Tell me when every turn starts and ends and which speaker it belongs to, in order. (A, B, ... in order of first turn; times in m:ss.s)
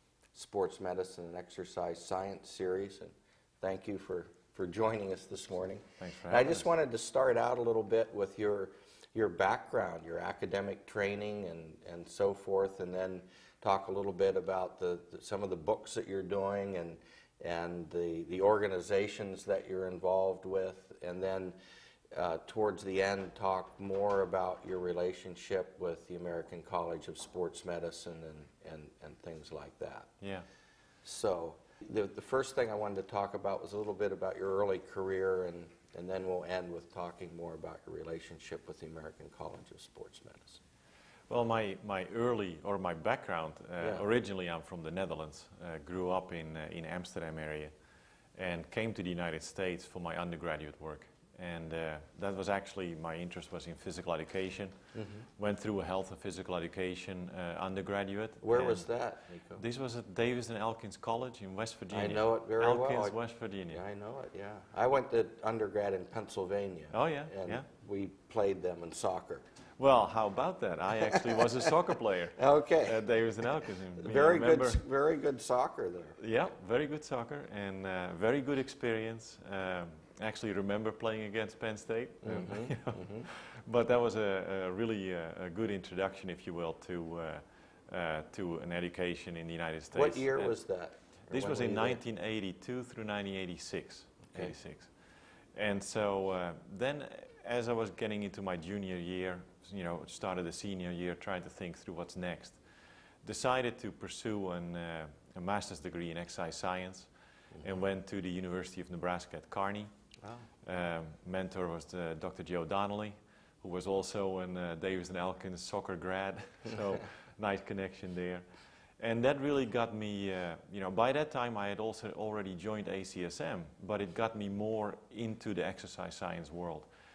0:00.3-0:21.6 A
0:06.0-0:06.7 B
0:22.1-0:30.1 A
0:30.2-0:30.5 B
0:31.0-0:40.6 A
0:41.3-0:47.7 B
0:43.8-0:44.0 A
0:48.4-0:54.8 B
0:54.9-0:55.3 A
0:55.4-0:58.9 B
0:58.4-0:59.6 A
0:59.6-1:03.8 B
1:01.9-1:03.2 A
1:03.7-1:09.5 A
1:06.9-1:07.7 B
1:09.8-1:14.8 B
1:11.0-1:11.6 A
1:12.4-1:13.0 A
1:14.0-1:16.2 A
1:16.2-1:30.5 B
1:22.2-1:23.3 A
1:29.9-1:32.0 A
1:31.3-1:34.9 B
1:35.5-1:42.6 B
1:43.2-1:47.1 B
1:47.6-1:49.9 B
1:50.2-1:50.5 A
1:50.6-1:58.5 B
1:59.0-2:06.9 B